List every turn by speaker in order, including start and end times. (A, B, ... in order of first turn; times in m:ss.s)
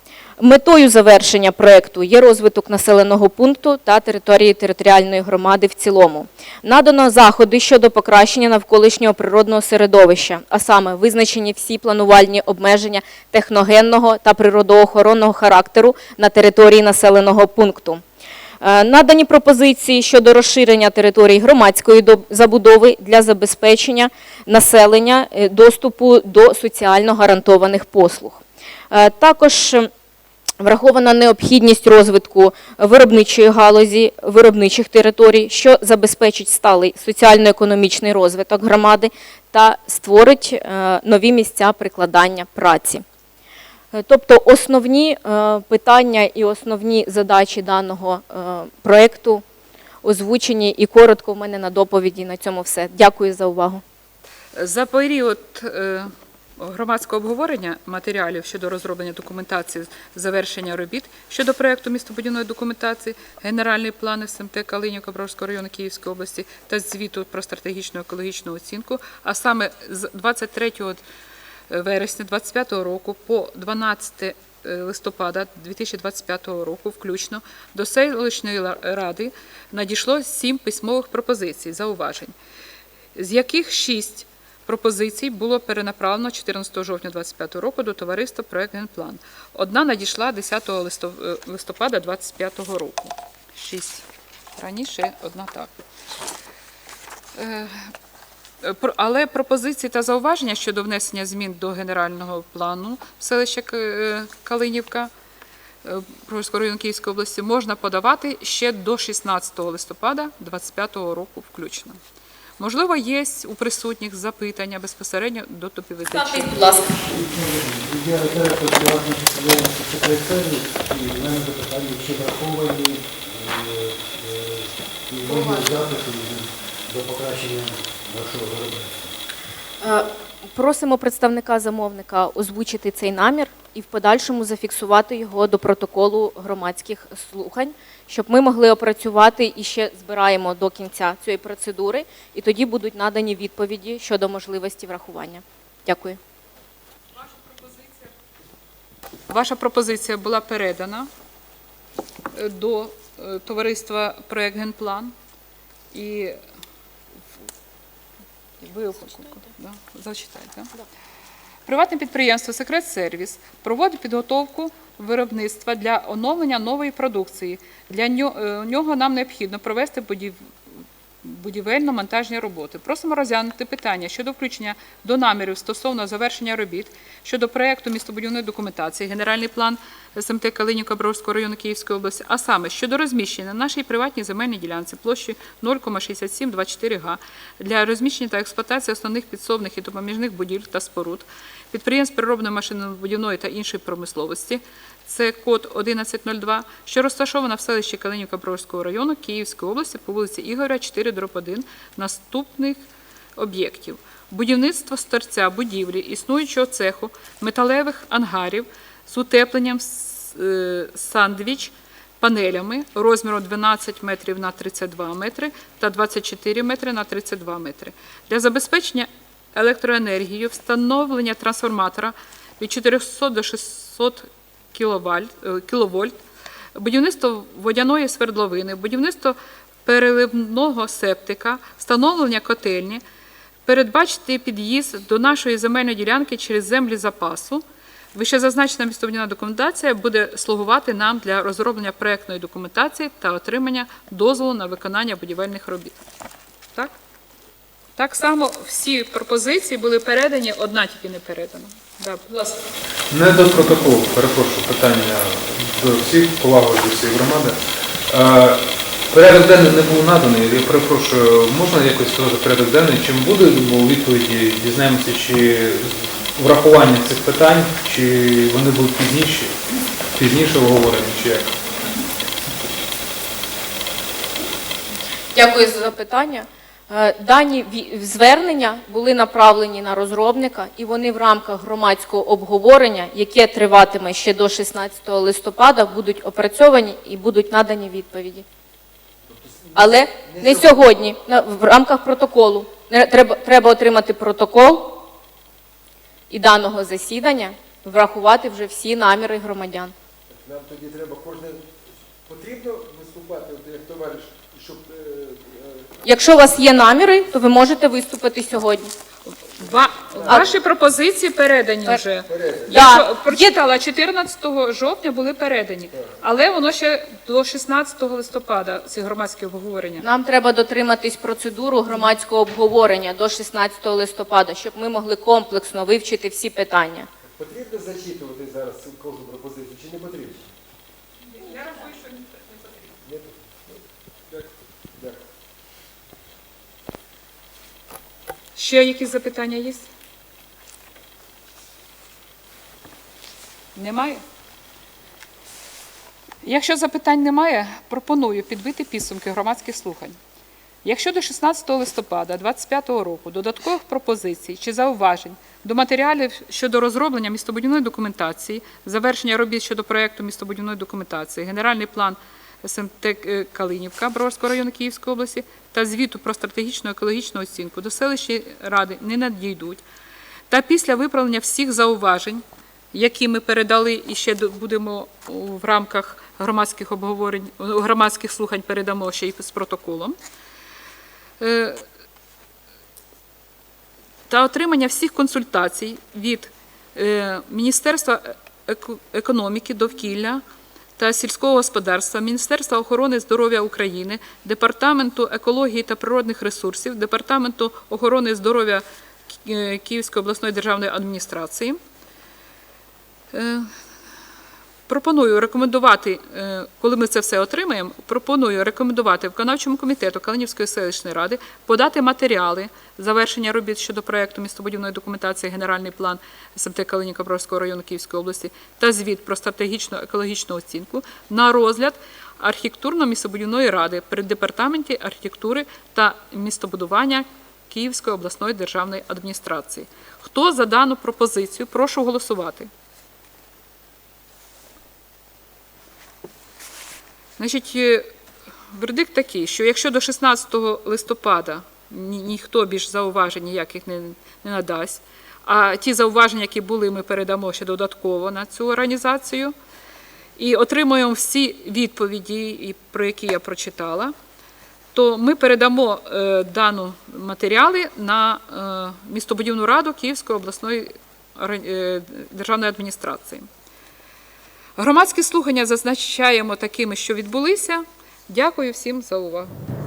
0:00.4-0:18.0 A
0:18.6-0:29.9 A
0:30.6-0:43.0 A
0:43.9-0:49.4 A
0:50.0-0:53.8 A
0:54.5-1:11.0 B
1:11.7-1:22.3 B
1:23.1-1:34.0 B
1:34.6-1:35.7 B
1:37.3-1:37.9 B
1:38.6-1:45.1 B
1:45.8-1:52.0 B
1:52.6-1:56.9 B
1:56.1-1:56.9 A
1:57.0-2:09.1 C
2:05.2-2:05.6 A
2:09.8-2:26.2 A
2:27.1-2:28.1 B
2:29.3-2:31.1 B
2:32.3-2:35.1 B
2:35.9-2:36.4 B
2:38.6-2:40.7 B
2:41.6-3:22.8 B
3:23.4-3:46.2 B
3:46.7-3:53.0 B
3:53.6-4:06.0 B
4:08.0-4:12.6 B
4:13.1-4:17.5 D
4:18.1-4:18.6 D
4:19.1-4:29.5 D
4:30.1-4:31.5 D
4:35.3-4:48.4 A
4:49.3-4:50.8 E
4:49.7-4:55.0 A
4:56.3-4:59.9 A
5:00.3-5:05.9 E
5:06.0-5:08.9 A
5:09.3-5:20.0 B
5:09.7-5:10.5 E
5:12.2-5:12.8 E
5:12.7-5:13.2 A
5:20.0-5:27.1 A
5:27.3-5:30.5 E
5:31.3-5:32.9 B
5:33.0-5:35.2 E
5:38.6-5:39.8 B
5:43.7-5:44.2 B
5:46.4-5:50.2 B
5:50.8-6:09.8 B
6:10.5-6:20.2 B
6:21.4-6:21.8 B
6:24.3-6:30.4 B
6:31.0-6:41.8 B
6:43.3-6:43.7 B
6:44.9-7:12.7 B
7:17.4-7:18.1 B
7:18.7-7:29.5 B
7:30.4-7:34.1 B
7:34.9-7:43.5 B
7:44.8-7:49.5 B